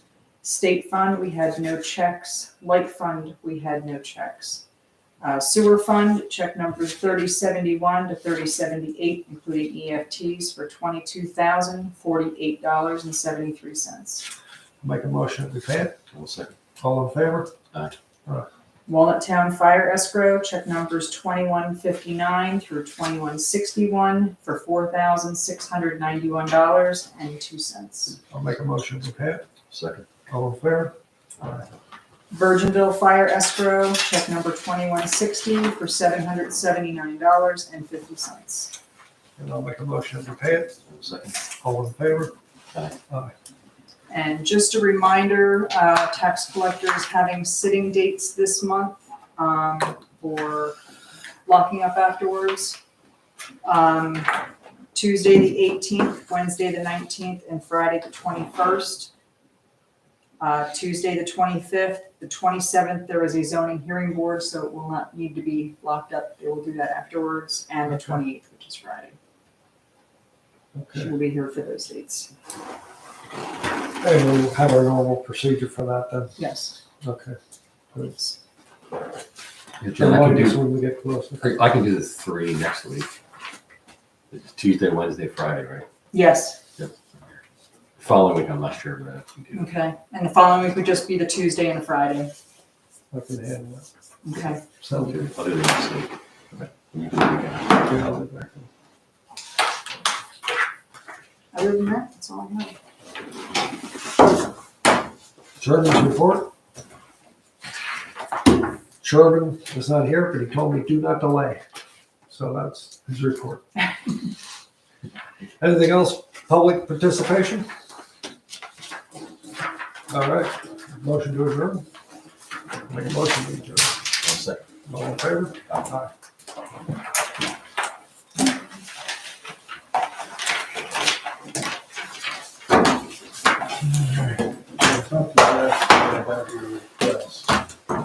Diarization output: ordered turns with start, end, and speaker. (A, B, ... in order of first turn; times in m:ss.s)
0:00.4-0:04.6 A
0:05.2-0:14.3 A
0:14.8-0:16.0 B
0:16.1-0:16.6 C
0:16.8-0:17.5 B
0:17.7-0:18.0 C
0:18.9-0:28.2 A
0:28.3-0:29.4 B
0:29.7-0:30.1 C
0:30.3-0:31.7 B
0:32.3-0:38.7 A
0:39.4-0:40.8 B
0:40.9-0:41.4 C
0:41.6-0:42.3 B
0:44.1-0:50.8 A
0:51.5-0:52.8 A
0:53.6-0:54.4 A
0:54.9-0:59.1 A
1:00.4-1:09.2 A
1:07.9-1:08.2 B
1:10.8-1:11.1 B
1:10.9-1:12.3 A
1:14.0-1:16.4 B
1:16.4-1:16.8 A
1:17.0-1:17.4 B
1:19.8-1:20.7 C
1:20.0-1:21.6 B
1:21.4-1:23.1 C
1:24.3-1:25.9 C
1:26.1-1:26.6 A
1:28.0-1:29.7 C
1:29.5-1:32.3 A
1:33.1-1:33.9 B
1:34.2-1:34.6 A
1:34.8-1:35.2 B
1:34.9-1:36.1 C
1:36.9-1:38.2 C
1:37.8-1:38.7 B
1:41.5-1:42.8 A
1:45.6-1:46.5 B
1:49.0-1:51.6 B
1:52.3-1:53.6 B
1:55.6-1:57.7 B
2:00.1-2:01.9 B
2:02.9-2:04.0 B
2:04.2-2:04.6 C
2:04.9-2:06.1 B
2:14.8-2:17.3 B